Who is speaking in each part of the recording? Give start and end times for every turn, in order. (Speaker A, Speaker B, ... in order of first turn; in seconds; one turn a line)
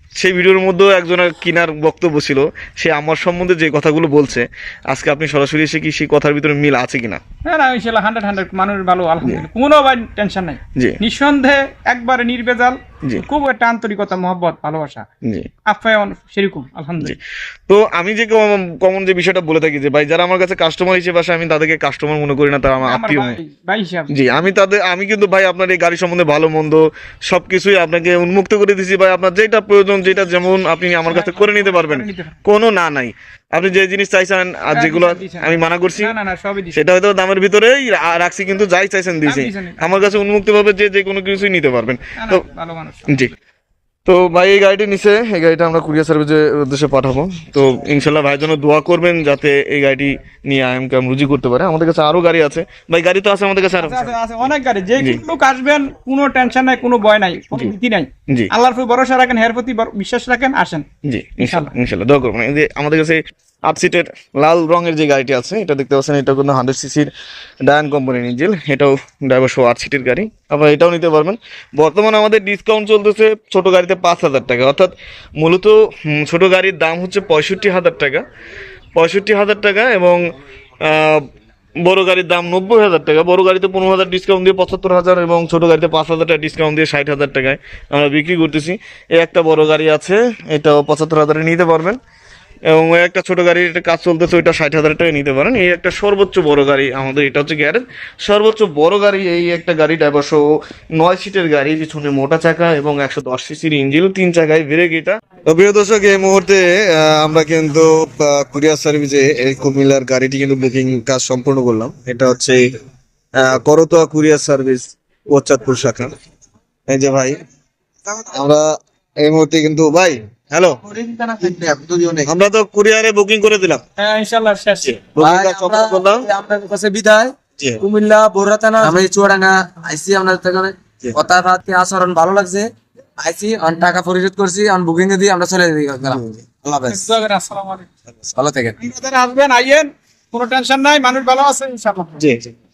Speaker A: 0.1-7.2
Speaker B: 7.4-15.1
Speaker A: 15.2-15.5
Speaker B: 15.7-17.1
Speaker A: 17.0-23.4
Speaker B: 22.8-24.1
Speaker A: 24.1-36.1
Speaker B: 31.1-32.4
Speaker B: 34.7-36.8
Speaker A: 36.7-42.5
Speaker B: 39.2-40.0
Speaker B: 42.1-43.3
Speaker A: 43.1-43.3
Speaker A: 44.0-54.1
Speaker B: 53.8-60.9
Speaker A: 61.0-67.1
Speaker B: 61.4-61.7
Speaker A: 67.6-78.2
Speaker A: 79.0-80.2
Speaker A: 80.8-81.2
Speaker A: 81.8-92.0
Speaker A: 92.7-100.4
Speaker A: 101.0-112.7
Speaker A: 113.4-116.1
Speaker A: 116.9-117.4
Speaker A: 118.1-118.7
Speaker A: 119.2-120.9
Speaker C: 120.9-122.3
Speaker A: 122.2-123.8
Speaker B: 124.0-125.0
Speaker A: 124.9-126.3
Speaker C: 125.2-137.1
Speaker B: 136.9-137.9
Speaker C: 138.3-138.8
Speaker B: 138.8-142.2
Speaker A: 142.2-142.5